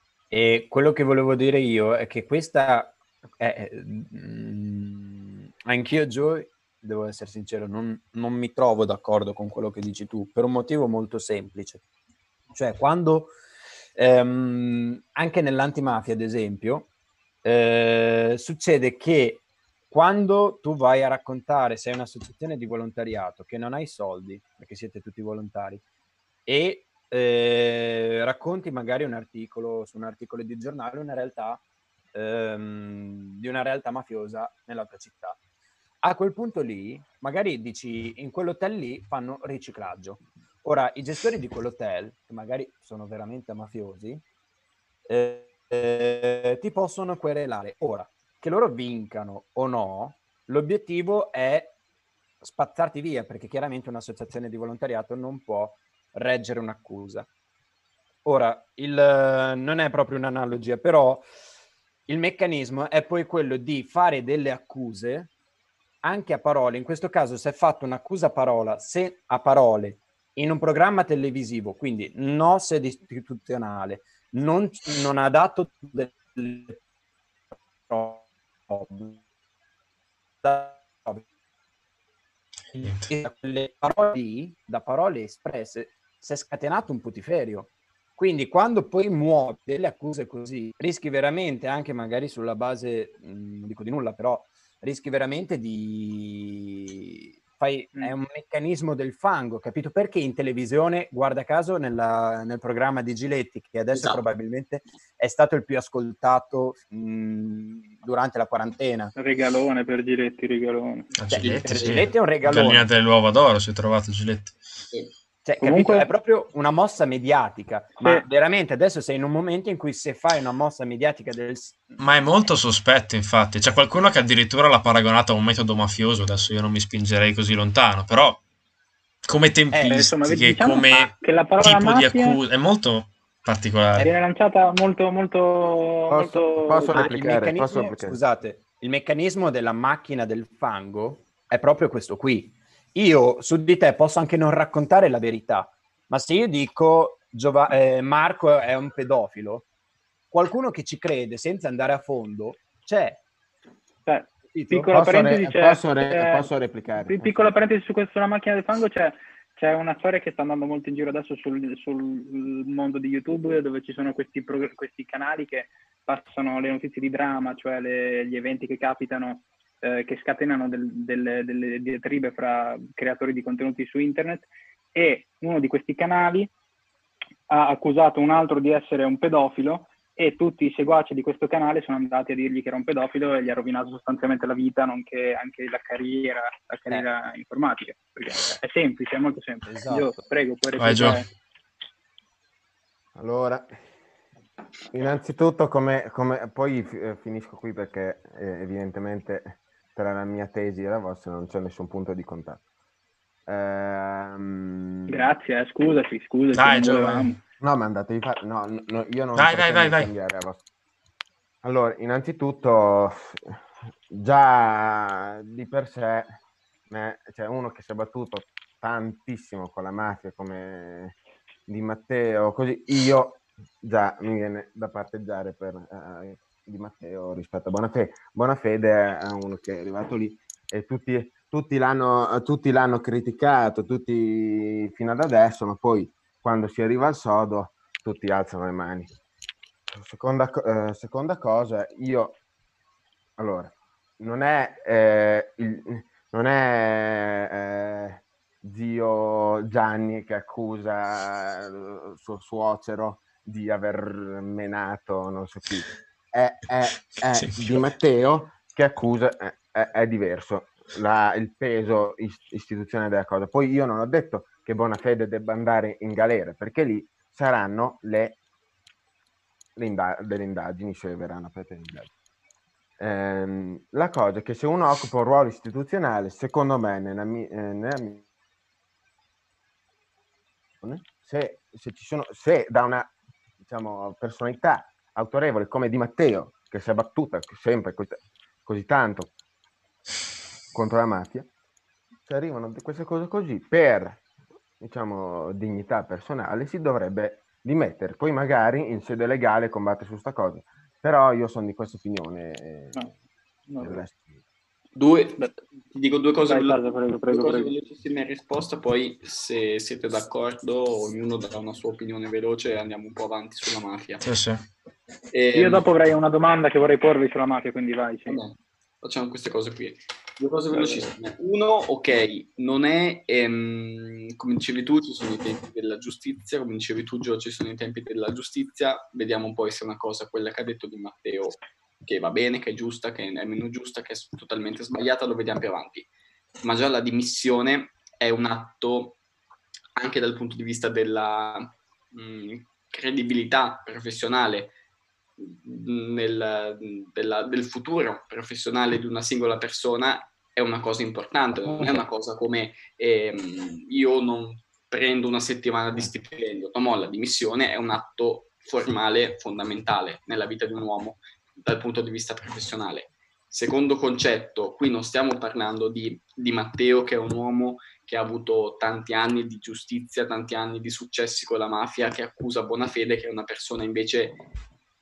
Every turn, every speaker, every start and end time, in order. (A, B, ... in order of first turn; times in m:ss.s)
0:00.3-0:11.8 A
0:12.5-0:13.3 A
0:14.0-0:16.9 A
0:17.4-0:25.8 A
0:26.5-0:31.6 A
0:32.1-0:35.4 A
0:36.0-0:44.2 A
0:45.1-0:51.7 A
0:52.4-0:57.3 A
0:58.2-1:01.2 A
1:02.1-1:05.3 A
1:06.0-1:16.8 A
1:17.9-1:19.2 A
1:20.4-1:21.2 A
1:22.7-1:49.1 A
1:22.8-1:23.1 B
1:43.9-1:44.2 C
1:49.2-1:51.1 D
1:51.2-1:54.6 B
1:51.3-1:52.9 A
1:51.4-1:52.1 C
1:55.4-2:02.0 A
1:55.6-1:56.1 D
2:02.0-2:08.4 B
2:09.2-2:14.1 B
2:09.7-2:10.0 A
2:09.9-2:12.4 D
2:14.0-2:17.1 D
2:16.1-2:18.2 E
2:16.9-2:29.7 A
2:30.3-2:33.2 A
2:34.1-2:36.5 D
2:34.5-2:34.9 A
2:34.9-2:37.5 E
2:37.0-2:56.5 D
2:57.5-3:11.3 D
3:09.7-3:10.2 A
3:10.8-3:11.2 B
3:13.2-3:13.7 E
3:14.9-3:22.6 E
3:23.5-3:25.3 E
3:25.1-3:27.4 D
3:26.5-3:27.3 B
3:27.6-3:30.6 E
3:29.4-3:30.1 B
3:31.6-3:33.6 E
3:34.1-3:36.4 E
3:36.9-3:41.2 E
3:41.7-3:59.1 E
3:59.9-4:02.4 E
4:03.4-4:28.4 E
4:17.3-4:17.8 B
4:29.8-4:32.1 E
4:33.0-4:38.2 E
4:40.8-4:49.3 E
4:50.7-4:51.5 E
4:52.3-4:54.2 E
4:54.8-5:03.1 E
5:03.7-5:04.0 D
5:03.8-5:04.4 E
5:05.0-5:14.2 C
5:06.5-5:07.7 D
5:14.2-5:14.6 B
5:15.3-5:15.9 C
5:15.5-5:18.4 D
5:18.3-5:36.1 C
5:20.7-5:21.1 D
5:36.6-5:39.2 C
5:40.0-5:44.8 C
5:45.4-6:14.4 C
5:51.7-5:52.0 D